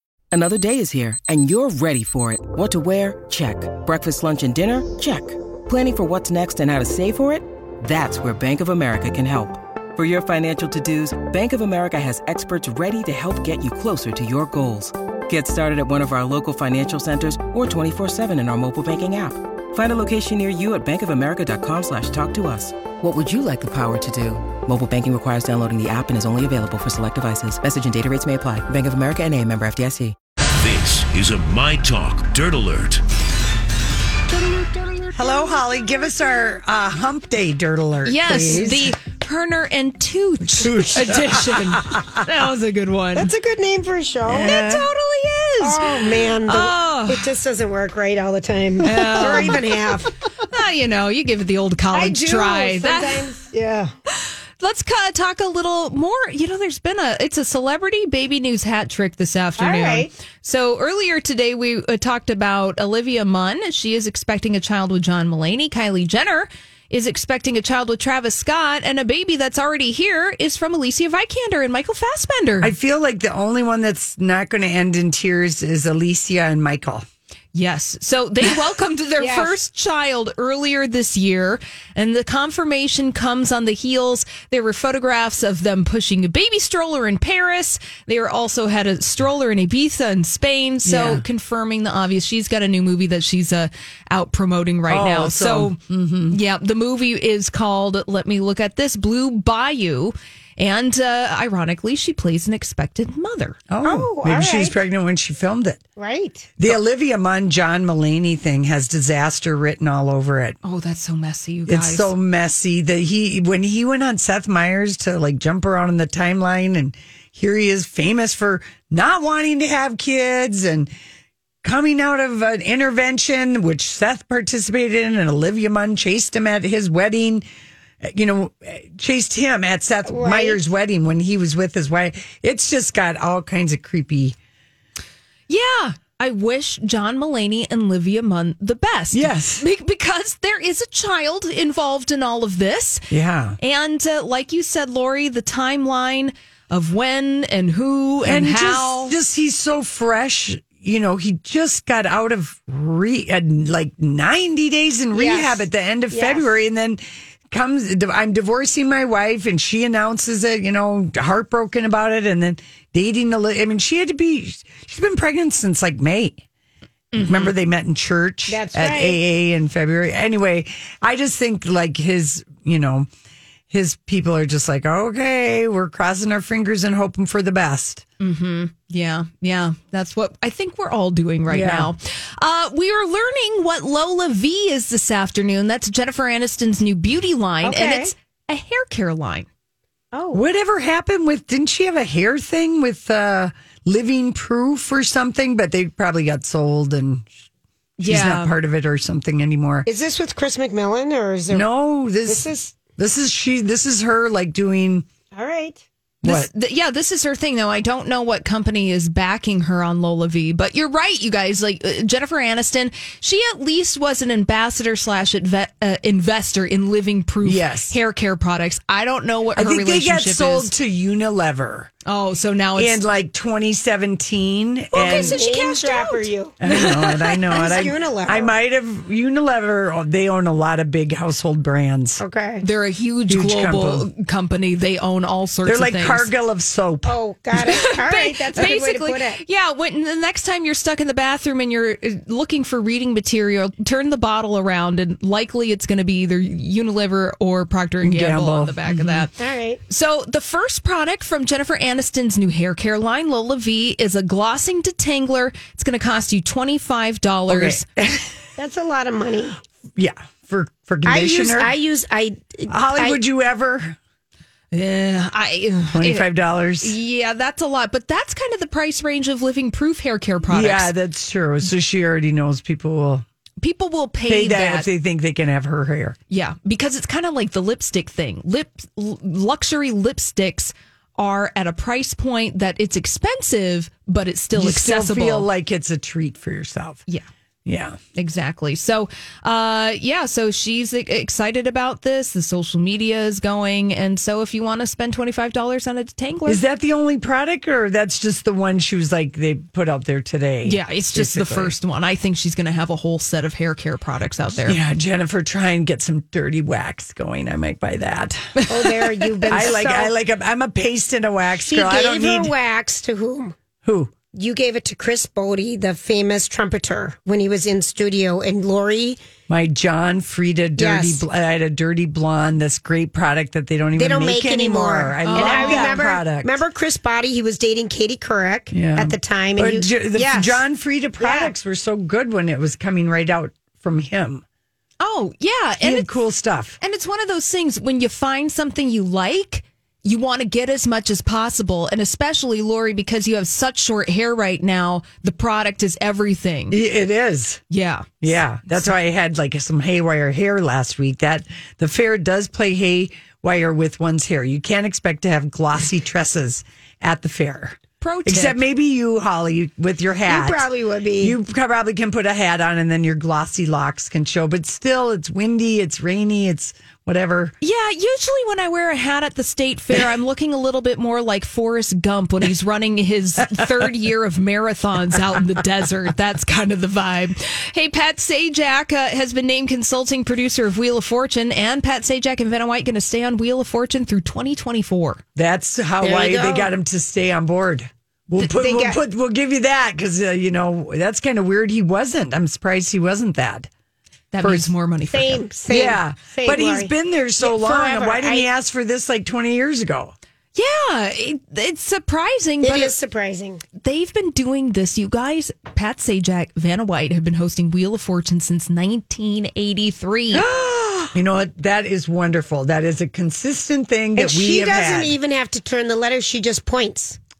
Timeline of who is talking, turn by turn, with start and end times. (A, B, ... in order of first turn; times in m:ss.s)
0:00.3-0:30.2 A
0:30.6-0:33.0 B
0:34.3-0:35.4 C
0:35.1-0:39.0 D
0:38.0-0:43.3 E
0:40.4-0:42.2 D
0:43.2-0:44.8 C
0:44.2-0:44.8 D
0:44.3-0:47.3 E
0:45.6-0:50.1 C
0:48.8-0:49.8 E
0:48.9-0:49.4 D
0:50.4-0:53.4 E
0:51.9-0:53.9 C
0:54.1-1:12.7 E
0:59.6-1:00.1 C
1:12.6-1:17.0 D
1:17.5-1:35.8 E
1:19.2-1:19.5 C
1:30.8-1:31.2 D
1:34.9-1:36.4 D
1:36.3-1:43.6 E
1:43.7-1:45.8 D
1:43.8-1:44.8 C
1:46.0-1:46.5 C
1:46.6-1:50.6 D
1:50.6-1:52.1 E
1:51.7-2:00.9 D
2:01.6-2:07.4 D
2:08.0-2:14.4 D
2:10.1-2:10.6 C
2:15.5-2:23.0 E
2:19.1-2:19.7 D
2:23.1-2:23.6 D
2:23.6-2:29.2 E
2:28.2-2:46.4 D
2:35.1-2:36.5 C
2:47.1-2:47.5 E
2:47.1-2:53.1 D
2:48.5-2:49.2 C
2:53.7-2:58.0 D
2:58.2-3:09.5 E
3:01.5-3:01.9 D
3:07.6-3:08.1 C
3:10.1-3:10.4 C
3:10.3-3:17.3 D
3:18.0-3:18.5 E
3:18.0-3:19.9 D
3:19.8-3:21.7 C
3:21.5-3:22.4 D
3:22.2-3:22.8 C
3:23.0-3:25.1 D
3:25.3-3:25.8 C
3:26.2-3:26.5 D
3:26.2-3:40.7 E
3:37.4-3:38.0 D
3:39.6-3:41.9 D
3:42.0-3:43.0 E
3:42.8-3:45.4 D
3:44.9-3:47.6 E
3:45.0-3:46.6 C
3:46.6-3:52.2 D
3:47.5-3:48.5 C
3:52.2-3:52.6 C
3:52.6-3:56.3 E
3:53.3-3:54.1 D
3:55.6-3:57.7 D
3:57.0-3:59.4 C
3:57.6-4:09.3 E
4:08.0-4:09.3 D
4:09.4-4:09.8 C
4:09.9-4:17.8 E
4:17.5-4:18.3 D
4:18.6-4:19.6 C
4:20.0-4:21.7 D
4:21.0-4:23.2 C
4:22.7-4:24.0 D
4:24.7-4:26.2 E
4:25.9-4:26.9 D
4:26.8-4:30.9 E
4:30.5-4:33.2 D
4:33.6-4:34.9 E
4:34.2-4:36.2 D
4:36.3-4:45.5 E
4:44.5-4:47.0 D
4:47.6-4:48.0 D
4:48.1-4:56.6 E
4:56.4-5:01.7 D
5:00.6-5:04.8 E
5:04.6-5:08.6 D
5:08.7-5:10.1 C
5:09.5-5:12.5 D
5:11.6-5:13.6 C
5:13.8-5:14.1 D
5:14.3-5:19.2 C
5:19.5-5:26.6 D
5:20.8-5:21.2 C
5:24.0-5:30.6 C
5:25.2-5:26.1 E
5:28.7-5:34.4 D
5:31.2-5:31.5 C
5:35.0-5:36.1 E
5:35.8-5:36.8 D
5:36.8-5:46.8 E
5:46.7-5:47.6 D
5:47.7-5:48.2 E
5:48.2-6:07.5 D
5:58.0-5:58.6 E
6:00.2-6:01.4 C
6:07.6-6:25.2 E
6:25.4-6:33.7 D
6:26.0-6:26.7 C
6:28.4-6:29.0 C
6:34.3-6:35.5 E
6:34.4-6:34.7 D
6:35.1-6:38.5 C
6:35.7-6:40.1 D
6:40.5-6:42.9 E
6:42.6-6:43.6 C
6:43.8-6:50.4 E
6:50.8-6:51.1 C
6:51.1-6:55.2 D
6:54.2-6:57.2 C